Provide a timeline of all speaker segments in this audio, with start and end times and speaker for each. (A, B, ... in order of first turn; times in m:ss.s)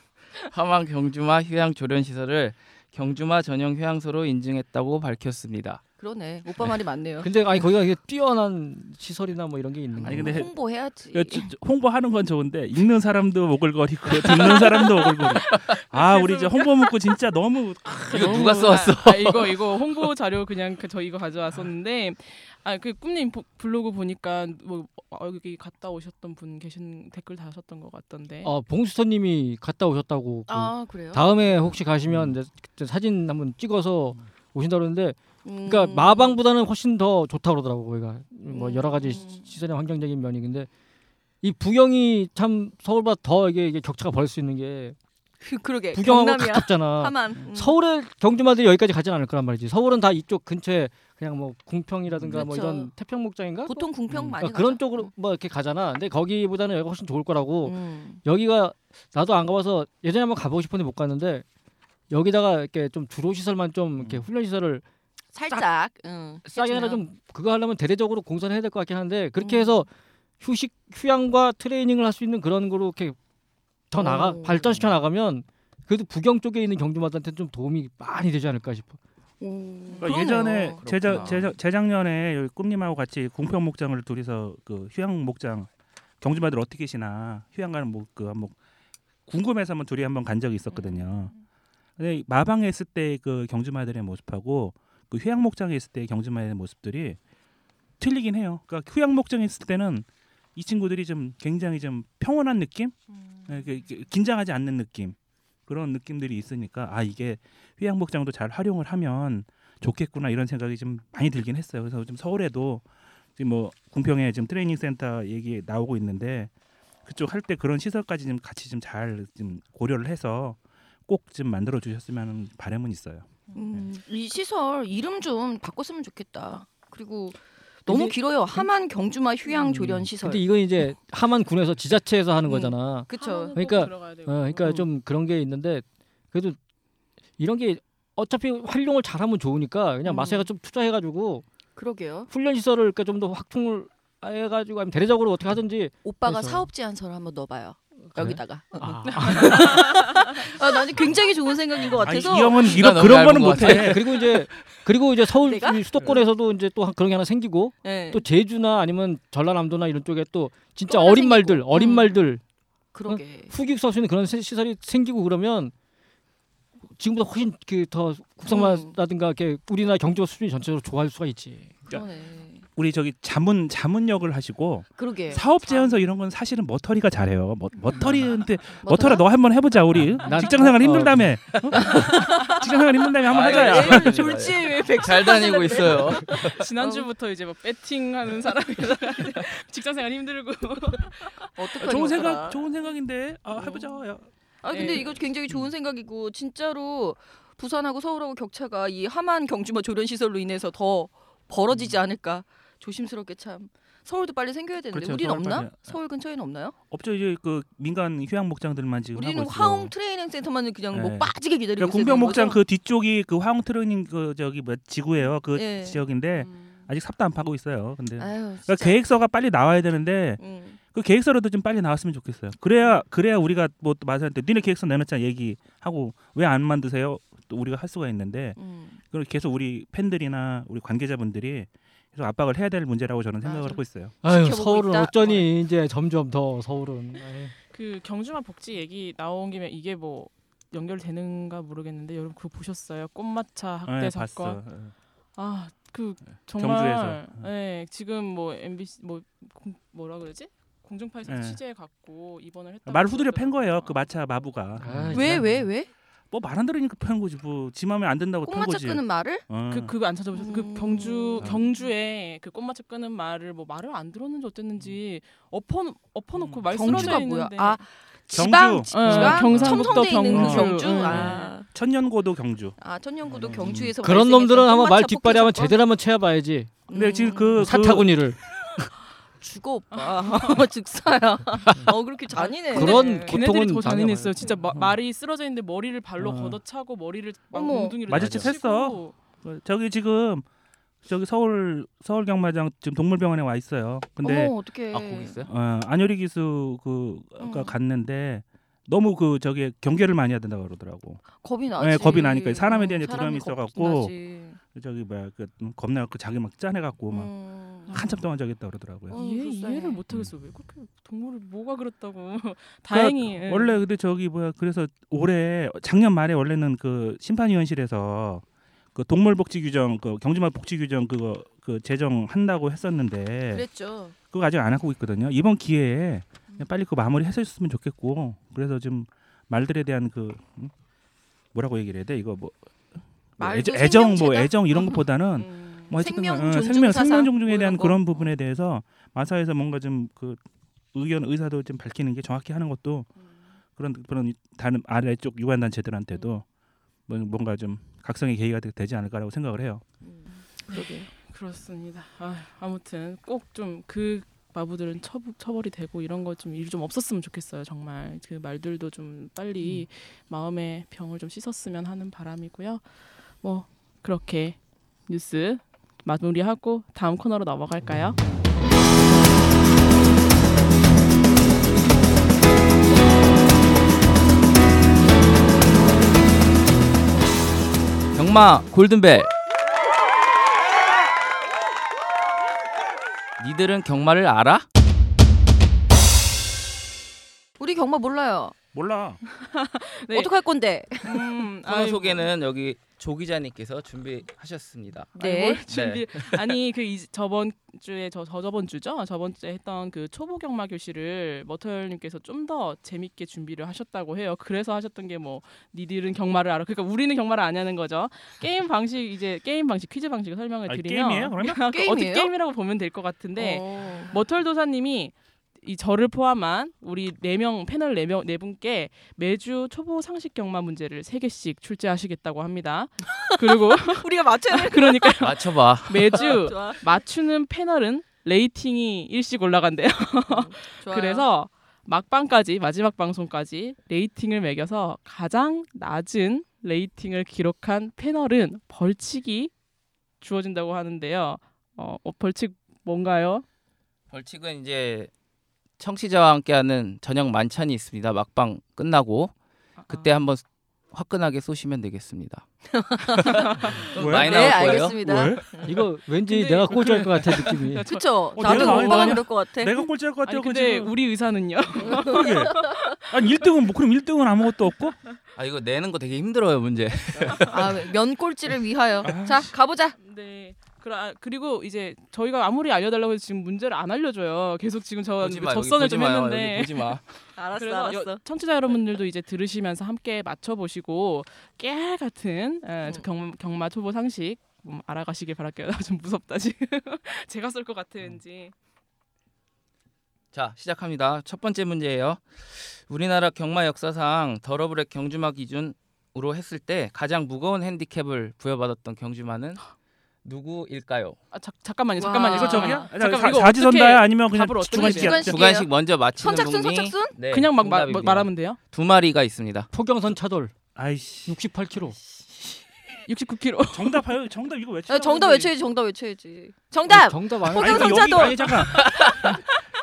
0:00.4-0:05.8 A
0:06.0-0:07.3 B
0:07.2-0:10.5 C
0:10.0-0:11.5 B
0:10.0-0:10.5 D
0:11.0-0:18.8 D
0:14.2-0:14.6 A
0:14.5-0:15.0 B
0:15.9-0:16.6 E
0:18.1-0:19.7 A
0:18.1-0:28.5 E
0:28.4-0:40.7 C
0:30.5-0:31.8 B
0:32.1-0:32.3 D
0:35.4-0:36.4 B
0:38.5-0:39.4 B
0:41.4-0:45.0 C
0:45.4-0:47.8 B
0:45.9-0:53.8 C
0:52.1-0:52.4 D
0:52.3-0:52.9 B
0:53.6-0:55.1 B
0:54.1-0:54.4 D
0:54.4-1:01.4 C
0:57.6-0:58.2 B
1:02.1-1:04.8 C
1:04.0-1:04.2 D
1:05.3-1:07.0 B
1:06.5-1:09.9 C
1:09.4-1:09.8 B
1:10.4-1:13.2 C
1:13.9-1:19.0 C
1:14.0-1:14.7 B
1:19.4-1:21.4 B
1:20.0-1:25.7 D
1:20.8-1:21.5 A
1:26.2-1:28.6 D
1:29.2-1:31.3 D
1:30.8-1:31.1 B
1:32.0-1:37.2 D
1:38.0-1:45.2 D
1:45.7-1:52.8 D
1:53.4-1:56.5 D
1:57.0-2:03.8 D
2:03.5-2:10.4 B
2:07.9-2:08.7 C
2:09.5-2:16.6 C
2:12.4-2:13.5 B
2:13.1-2:14.8 E
2:17.4-2:21.4 C
2:20.0-2:20.5 B
2:21.8-2:22.3 B
2:22.3-2:26.7 C
2:26.0-2:32.9 B
2:28.1-2:29.8 C
2:29.4-2:30.1 E
2:31.9-2:34.2 D
2:32.6-2:34.0 A
2:33.6-2:42.4 C
2:35.4-2:36.2 B
2:37.8-2:38.2 B
2:40.9-2:42.1 B
2:42.9-2:43.5 B
2:43.1-2:45.7 C
2:46.9-2:51.9 C
2:48.5-2:49.0 B
2:51.9-2:52.6 B
2:52.7-3:04.5 D
2:55.0-2:56.0 B
2:58.8-2:59.2 B
3:00.2-3:01.4 C
3:01.5-3:01.8 A
3:01.8-3:02.7 B
3:03.2-3:06.7 A
3:03.3-3:07.1 B
3:06.4-3:11.9 E
3:11.6-3:12.6 B
3:11.8-3:14.3 D
3:13.5-3:14.0 E
3:14.6-3:26.8 B
3:14.7-3:15.2 E
3:14.8-3:15.7 D
3:21.7-3:22.0 D
3:24.9-3:26.0 D
3:26.9-3:29.9 D
3:29.1-3:32.6 B
3:30.9-3:54.2 D
3:35.5-3:36.8 B
3:38.2-3:39.0 B
3:40.4-3:40.8 B
3:48.6-3:49.0 B
3:53.4-3:55.5 B
3:54.2-3:57.5 C
3:57.7-4:04.6 E
4:03.8-4:04.9 D
4:05.4-4:14.1 E
4:06.4-4:07.5 D
4:11.2-4:11.6 D
4:12.8-4:15.6 D
4:14.8-4:15.5 C
4:15.1-4:15.9 B
4:16.3-4:19.9 D
4:18.4-4:19.4 B
4:19.7-4:27.8 E
4:20.3-4:21.6 B
4:26.4-4:27.2 D
4:26.7-4:31.7 B
4:28.3-4:34.0 D
4:28.9-4:31.5 E
4:32.8-4:35.8 B
4:34.0-4:36.7 C
4:36.9-4:37.7 B
4:36.9-4:38.1 D
4:37.6-4:38.9 C
4:39.4-4:43.4 B
4:39.9-4:40.6 E
4:42.4-4:49.1 E
4:42.6-4:44.8 C
4:46.2-4:46.6 C
4:47.5-4:48.0 B
4:48.0-4:50.4 D
4:48.2-4:48.4 A
4:51.0-4:54.5 D
4:54.2-4:55.4 B
4:54.9-4:55.5 A
4:55.4-5:04.1 D
4:57.4-4:57.7 B
5:01.3-5:04.6 B
5:04.7-5:07.3 D
5:07.1-5:08.0 B
5:07.9-5:08.2 E
5:07.9-5:09.2 D
5:09.1-5:10.0 B
5:09.1-5:13.8 E
5:12.9-5:23.6 D
5:23.5-5:24.1 B
5:24.3-5:30.7 D
5:31.5-5:32.5 D
5:33.4-5:40.4 D
5:33.4-5:35.1 B
5:35.6-5:38.3 B
5:40.9-5:43.1 D
5:43.8-5:46.4 D
5:47.1-5:49.8 D
5:50.0-5:51.1 B
5:50.7-6:02.8 E
6:03.4-6:08.2 E
6:18.1-6:19.3 A
6:23.4-6:24.6 A
6:27.6-6:28.6 B
6:28.7-6:29.2 D
6:29.3-6:30.3 E
6:30.1-6:31.2 B
6:31.0-6:32.3 E
6:31.6-6:35.1 A
6:35.1-6:35.6 B
6:35.2-7:19.5 E
6:35.7-6:36.4 A
6:50.7-6:51.7 D
6:51.7-6:52.3 B
6:53.4-6:54.1 B
7:03.8-7:05.2 B
7:05.2-7:06.4 A
7:06.1-7:06.8 B
7:10.2-7:11.3 B
7:20.2-7:23.4 E
7:24.1-7:25.1 A
7:25.8-7:29.3 A
7:29.8-7:30.1 E
7:29.9-7:32.4 A
7:32.7-7:35.7 B
7:33.2-7:33.8 E
7:33.8-7:35.0 A
7:33.8-7:35.7 D
7:35.6-7:37.9 C
7:36.3-7:39.2 E
7:36.7-7:37.5 D
7:37.8-7:39.8 B
7:38.3-7:40.9 D
7:40.2-7:42.9 E
7:41.8-7:42.8 B
7:41.9-7:45.0 D
7:45.4-7:47.9 A
7:47.5-7:49.9 B
7:49.0-7:49.5 D
7:50.0-7:56.9 E
7:55.2-7:57.0 A
7:57.4-7:58.2 B
7:57.5-8:08.5 E
8:10.3-8:19.6 A
8:20.2-8:21.2 A
8:21.3-8:25.2 E
8:22.0-8:22.9 B
8:22.3-8:25.4 D
8:24.7-8:27.1 B
8:25.2-8:29.7 A
8:27.3-8:28.6 E
8:29.7-8:30.5 C
8:30.7-8:31.4 D
8:31.3-8:32.0 C
8:33.1-8:34.1 E
8:33.7-8:35.5 D
8:34.9-8:38.8 B
8:36.9-8:38.2 C
8:37.5-8:39.4 D
8:38.7-8:39.4 A